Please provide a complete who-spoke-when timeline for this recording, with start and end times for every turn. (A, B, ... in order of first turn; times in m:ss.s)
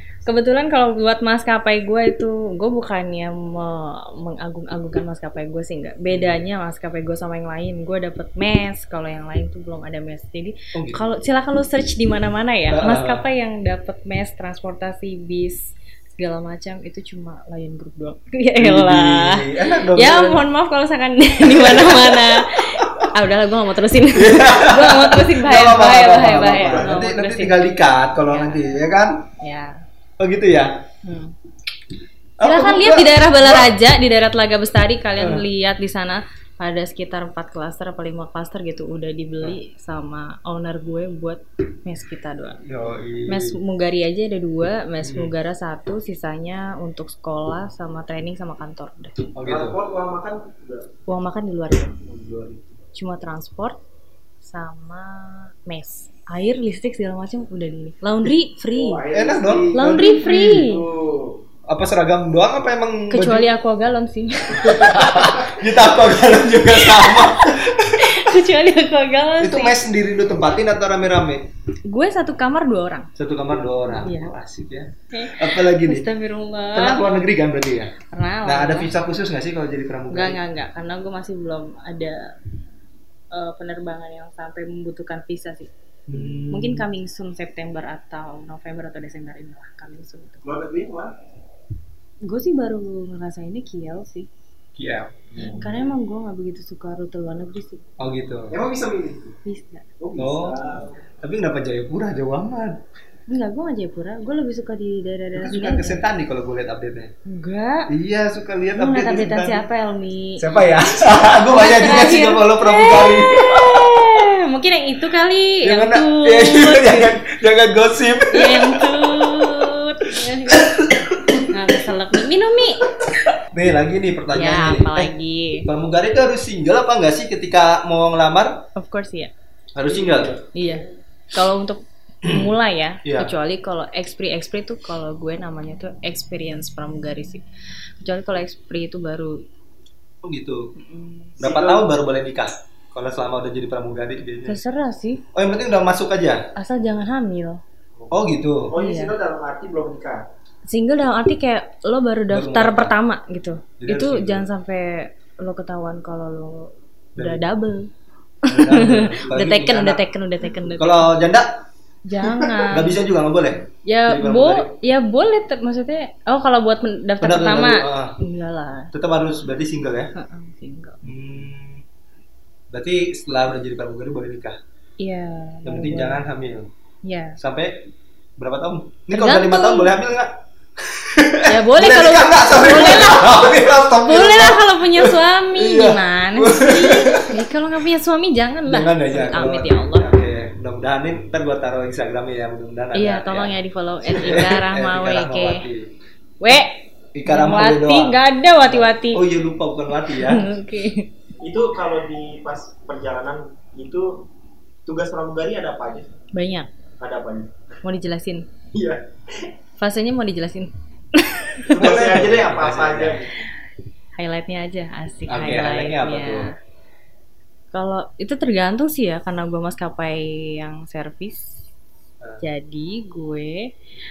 0:00.2-0:28.7 A
0:06.1-0:06.4 B
0:10.7-0:11.0 B
0:12.7-0:13.2 B
0:18.6-0:20.5 B
0:21.4-0:23.1 B
0:24.1-0:29.3 B
0:29.4-0:29.8 A
0:30.2-0:30.8 B
0:31.0-0:31.3 A
0:32.4-0:33.7 B
0:32.4-0:42.6 A
0:35.2-0:35.4 B
0:42.6-0:43.6 B
0:43.3-0:49.3 A
0:45.0-0:45.3 B
0:49.4-0:49.8 B
0:49.4-0:50.9 C
0:51.1-0:52.0 A
0:52.0-0:52.6 C
0:52.9-0:53.8 A
0:54.4-0:59.0 A
0:58.7-1:01.4 C
0:59.1-1:00.7 B
0:59.7-1:00.9 A
1:01.7-1:03.5 B
1:03.1-1:05.5 A
1:04.7-1:08.3 B
1:06.4-1:09.8 A
1:09.4-1:11.5 B
1:11.9-1:13.1 A
1:13.2-1:16.0 B
1:13.9-1:14.3 A
1:15.1-1:17.1 A
1:16.7-1:17.9 B
1:18.1-1:18.9 A
1:18.4-1:20.4 B
1:20.1-1:22.3 A
1:23.3-1:25.7 A
1:26.1-1:26.8 B
1:26.5-1:30.4 A
1:30.4-1:31.2 C
1:32.2-1:34.3 A
1:34.8-1:35.7 B
1:35.3-1:37.8 A
1:38.0-1:38.6 B
1:38.5-1:39.3 C
1:39.4-1:39.8 A
1:40.0-1:41.0 C
1:40.2-1:42.8 B
1:43.3-1:46.0 A
1:45.3-1:47.1 B
1:47.2-1:47.9 A
1:47.9-1:49.7 B
1:48.7-1:57.2 A
1:50.4-1:54.2 B
1:55.6-2:01.6 B
1:58.3-2:00.9 A
2:01.5-2:03.0 A
2:02.9-2:05.1 B
2:04.3-2:05.7 A
2:05.6-2:08.6 B
2:08.8-2:09.3 A
2:09.7-2:10.4 B
2:10.5-2:17.4 A
2:12.2-2:12.5 B
2:13.0-2:13.3 B
2:18.0-2:19.4 A
2:20.2-2:20.6 B
2:20.8-2:21.4 A
2:21.4-2:21.9 C
2:21.4-2:24.6 B
2:24.4-2:25.2 A
2:25.3-2:26.4 B
2:26.6-2:27.6 A
2:28.1-2:28.7 B
2:28.7-2:30.2 C
2:28.7-2:29.2 A
2:30.7-2:37.9 A
2:32.3-2:32.9 B
2:33.8-2:34.4 B
2:37.2-2:37.4 B
2:38.4-2:41.2 A
2:38.5-2:40.0 B
2:40.7-2:41.6 B
2:42.0-2:43.0 A
2:42.3-2:44.7 B
2:43.8-2:48.9 A
2:47.2-2:48.2 B
2:48.9-2:50.1 B
2:50.1-2:51.0 A
2:51.0-2:51.8 B
2:52.7-2:54.6 B
2:55.0-2:56.2 A
2:55.6-2:56.7 B
2:57.0-2:57.4 A
2:57.4-3:07.4 B
2:59.1-2:59.9 A
3:01.4-3:10.1 A
3:08.7-3:15.9 B
3:12.9-3:15.6 A
3:16.4-3:19.2 A
3:17.1-3:20.5 B
3:20.1-3:21.1 A
3:21.4-3:24.2 C
3:24.8-3:26.1 C
3:26.3-3:26.7 A
3:27.0-3:27.5 C
3:27.8-3:28.4 A
3:28.7-3:29.0 C
3:29.8-3:32.1 A
3:31.7-3:33.3 C
3:31.7-3:33.2 B
3:34.2-3:36.5 A
3:35.3-3:36.5 B
3:37.7-3:41.6 A
3:42.4-3:43.7 A